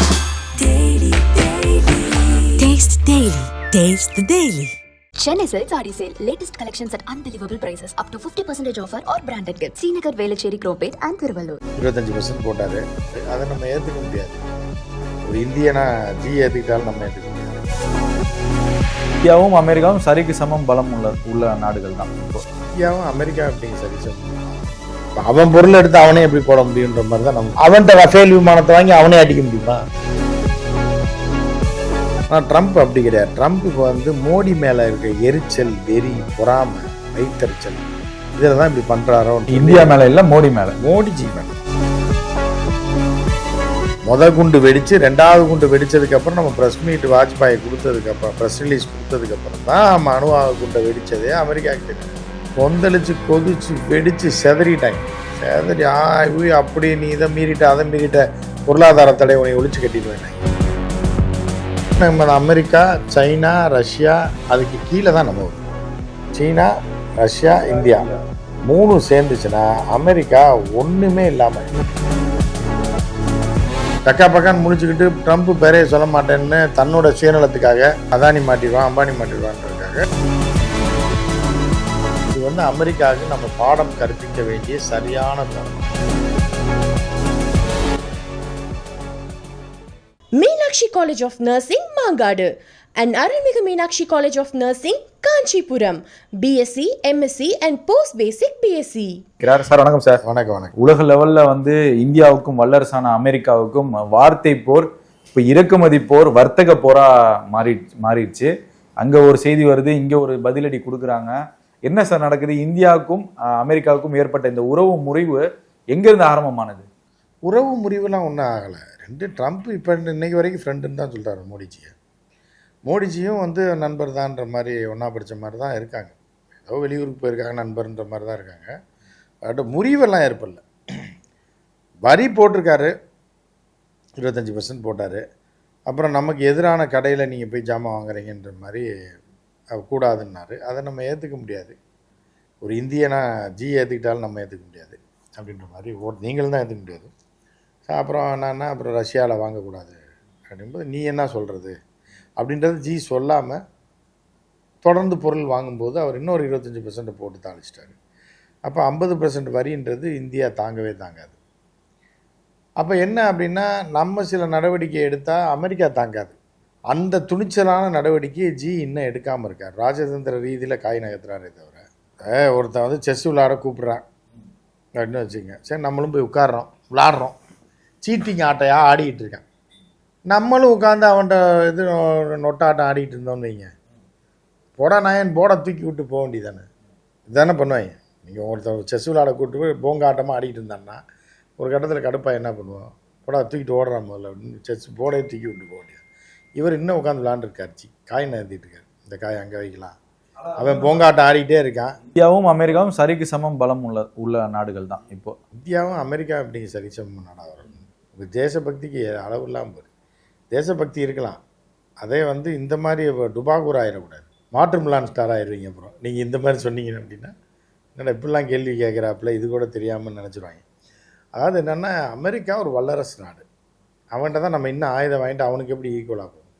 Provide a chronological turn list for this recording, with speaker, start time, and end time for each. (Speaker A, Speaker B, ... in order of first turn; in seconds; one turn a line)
Speaker A: 0.6-2.7
Speaker A: 5.2-11.6
Speaker B: 11.8-14.4
Speaker B: 15.3-17.6
Speaker C: 19.2-22.4
Speaker B: 22.8-24.6
Speaker B: 25.2-29.8
Speaker B: 32.3-37.8
Speaker B: 38.4-40.0
Speaker C: 39.5-40.8
Speaker B: 40.8-41.6
Speaker B: 44.1-60.4
Speaker B: 62.0-65.6
Speaker B: 66.3-66.7
Speaker B: 67.2-68.1
Speaker C: 67.7-68.1
Speaker B: 68.7-71.8
Speaker B: 74.1-80.0
Speaker B: 82.3-85.9
Speaker D: 90.4-99.2
Speaker C: 99.4-100.2
Speaker B: 100.2-100.7
Speaker C: 100.8-108.5
Speaker C: 109.0-111.3
Speaker C: 111.9-116.9
Speaker B: 117.5-121.9
Speaker B: 122.9-128.7
Speaker B: 129.5-130.6
Speaker B: 132.0-132.9
Speaker B: 134.2-135.2
Speaker B: 135.9-138.9
Speaker B: 139.8-141.8
Speaker B: 142.6-147.1
Speaker B: 147.9-150.0
Speaker B: 150.5-151.8
Speaker B: 152.4-153.6
Speaker B: 154.8-158.0
Speaker B: 158.7-161.4
Speaker B: 162.8-166.4
Speaker B: 166.9-174.0
Speaker B: 175.0-177.4
Speaker B: 178.0-179.4
Speaker B: 180.3-183.7
Speaker B: 184.8-186.7
Speaker B: 187.3-191.0
Speaker B: 191.6-196.0
Speaker B: 196.6-200.0
Speaker C: 200.5-201.1
Speaker B: 200.6-201.9
Speaker C: 202.2-205.3
Speaker B: 205.6-209.9
Speaker B: 210.5-211.4
Speaker B: 212.0-217.3
Speaker B: 218.0-220.6
Speaker B: 221.4-223.4
Speaker B: 224.2-226.4